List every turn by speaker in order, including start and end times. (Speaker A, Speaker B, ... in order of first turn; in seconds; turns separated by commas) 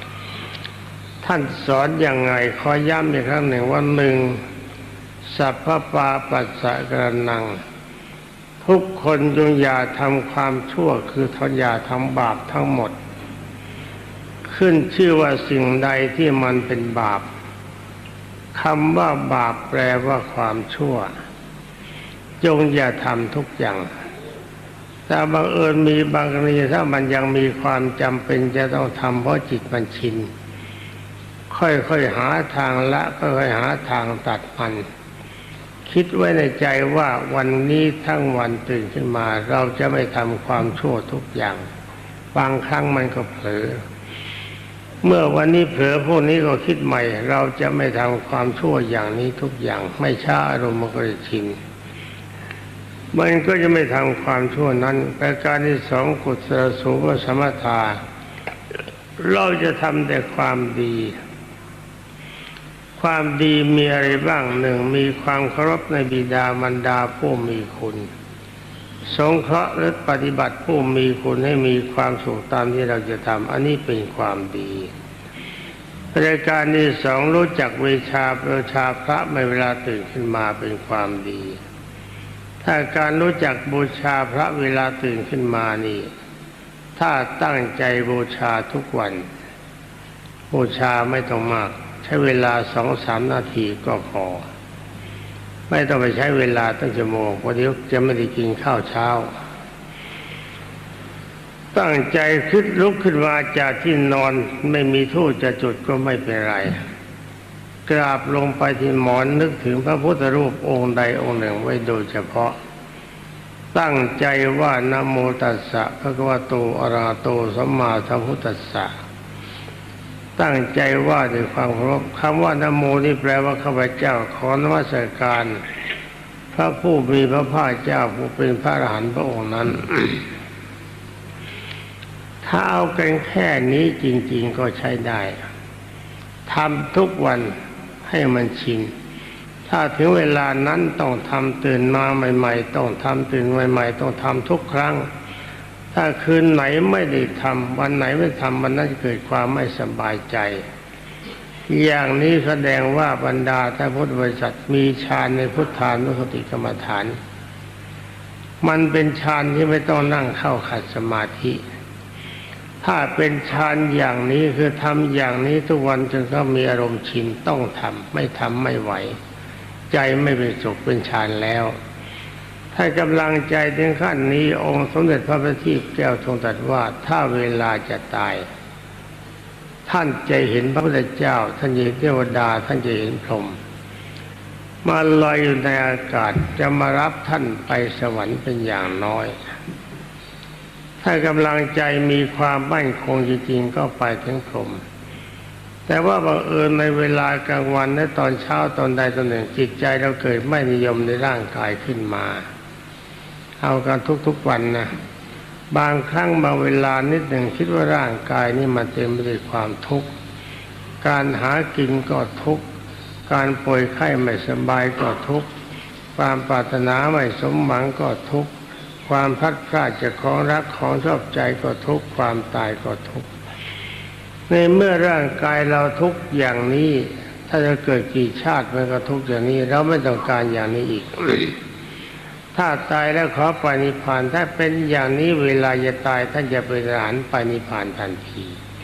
Speaker A: 1.2-4.4, Speaker A: 5.2-7.6, Speaker A: 8.6-12.9, Speaker A: 14.4-17.2, Speaker A: 18.5-21.1, Speaker A: 22.4-23.9, Speaker A: 25.1-30.3, Speaker A: 31.5-34.8, Speaker A: 35.9-41.6, Speaker A: 42.3-43.8, Speaker A: 45.0-51.6, Speaker A: 53.1-58.0, Speaker A: 59.2-61.1, Speaker A: 63.0-68.1, Speaker A: 69.1-74.9, Speaker A: 76.1-81.6, Speaker A: 82.6-86.1, Speaker A: 87.0-89.2, Speaker A: 90.5-94.5, Speaker A: 95.7-99.3, Speaker A: 101.7-106.8, Speaker A: 107.8-112.5, Speaker A: 113.7-118.9, Speaker A: 120.4-125.6, Speaker A: 126.5-130.2, Speaker A: 132.4-135.4, Speaker A: 136.5-138.9, Speaker A: 139.7-145.1, Speaker A: 145.9-150.6, Speaker A: 151.7-157.2, Speaker A: 158.6-161.6, Speaker A: 162.8-169.2, Speaker A: 169.9-171.7, Speaker A: 172.7-178.4, Speaker A: 179.8-183.6, Speaker A: 184.8-189.3, Speaker A: 191.0-194.8, Speaker A: 195.9-202.4, Speaker A: 203.6-204.9, Speaker A: 205.7-210.1, Speaker A: 211.0-212.6, Speaker A: 213.3-215.5, Speaker A: 216.2-218.5, Speaker A: 219.0-223.3, Speaker A: 224.5-231.5, Speaker A: 232.5-238.6